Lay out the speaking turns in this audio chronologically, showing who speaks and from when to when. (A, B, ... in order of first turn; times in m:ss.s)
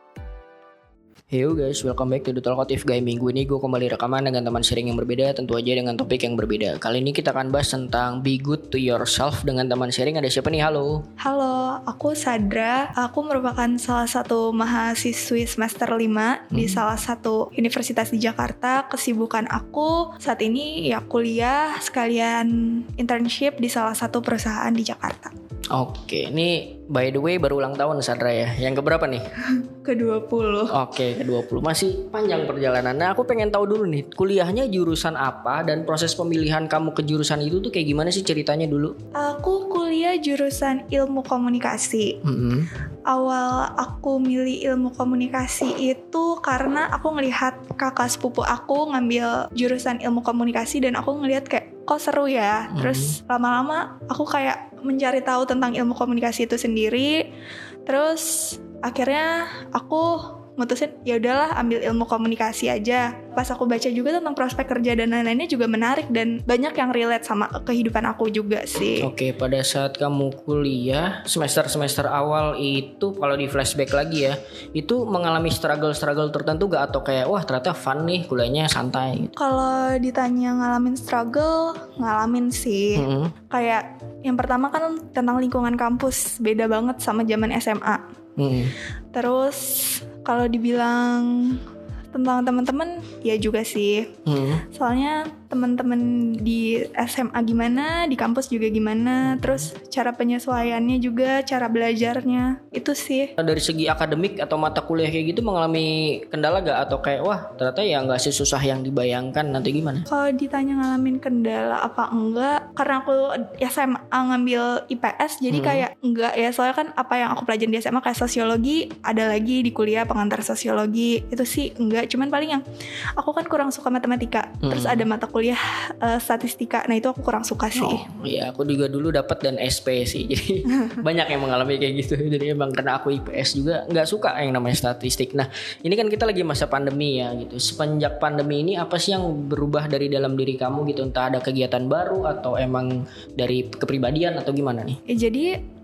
0:01.3-0:11.0 A
0:11.2-0:25.3 B
0:16.5-0:16.8 A
0:25.7-0:29.3 A
0:29.8-0:30.7 B
0:30.7-0:38.9 A
0:39.1-0:42.2 B
0:42.2-0:42.7 A
0:43.1-0:57.2 B
0:52.7-0:53.2 A
0:57.8-1:09.1 B
1:09.0-1:19.3 A
1:19.4-1:28.0 B
1:22.9-1:23.3 A
1:28.4-1:28.7 A
1:29.1-1:31.6 B
1:32.1-1:34.1 B
1:34.2-1:34.6 A
1:34.6-1:43.3 B
1:39.2-1:39.7 A
1:43.4-1:50.1 A
1:50.1-2:02.6 B
1:55.5-1:55.8 A
2:03.2-2:08.0 B
2:04.6-2:05.1 A
2:07.7-2:25.0 A
2:25.1-2:25.5 B